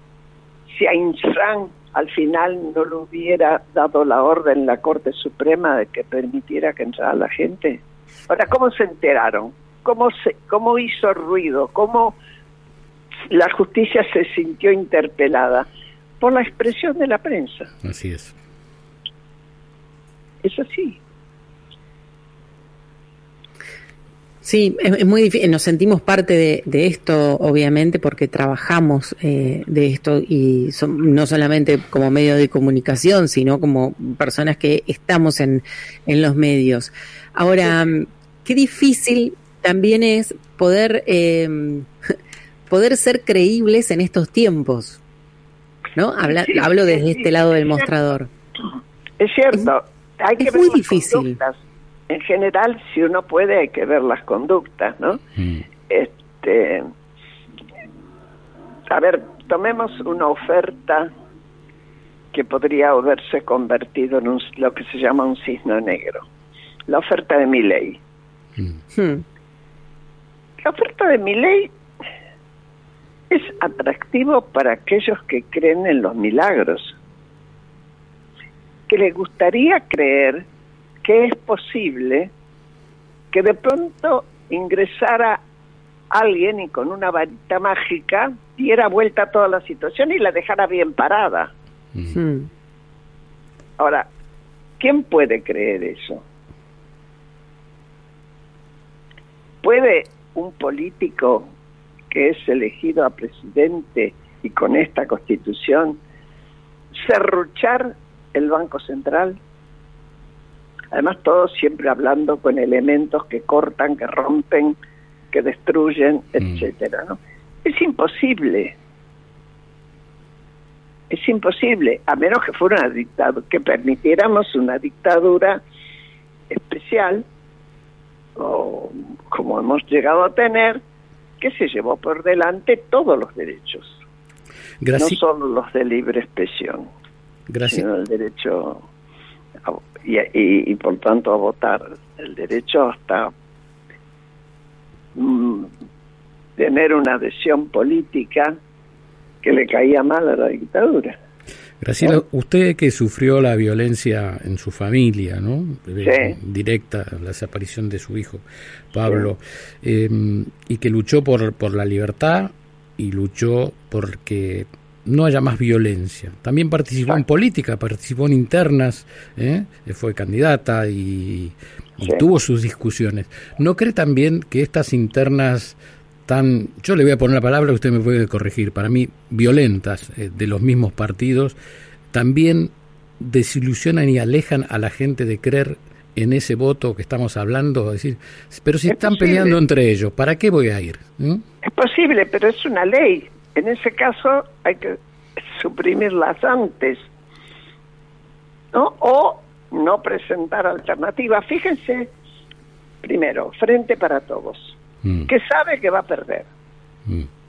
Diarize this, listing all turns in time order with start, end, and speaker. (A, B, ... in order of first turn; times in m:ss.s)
0:00.7-0:12.2 A
0:13.3-0:15.7 A
0:16.2-0:17.7 A
0:17.8-0:18.3 B
0:20.4-0:21.0 A
0:24.4-0:41.9 C
0:42.7-0:45.0 C
0:46.0-0:48.3 C
0:46.2-0:47.3 A
0:49.2-0:55.2 A
0:50.4-0:51.4 C
0:55.4-0:55.6 B
0:55.9-0:56.9 A
0:58.9-1:01.1 A
1:02.3-1:06.2 A
1:06.9-1:08.0 A
1:08.9-1:09.2 C
1:10.6-1:11.7 A
1:13.3-1:17.0 A
1:18.9-1:20.4 A
1:21.0-1:22.3 A
1:23.3-1:25.4 A
1:26.1-1:31.5 A
1:32.1-1:32.5 C
1:33.8-1:34.1 A
1:34.8-1:36.2 A
1:39.6-1:41.5 A
1:42.1-1:46.0 A
1:46.9-1:49.4 A
1:50.9-1:54.8 A
1:55.3-1:58.7 A
2:01.1-2:05.6 A
2:06.5-2:07.2 A
2:08.4-2:10.8 A
2:11.4-2:14.0 A
2:14.8-2:15.2 B
2:15.0-2:16.9 A
2:17.5-2:17.8 B
2:17.7-2:18.8 A
2:19.6-2:23.3 A
2:25.1-2:25.7 A
2:26.6-2:28.6 A
2:29.4-2:31.2 A
2:31.8-3:01.5 B
2:36.0-2:36.4 A
3:02.1-3:11.4 B
3:08.9-3:09.6 A
3:11.6-3:17.1 A
3:18.7-3:22.1 A
3:23.0-3:26.5 A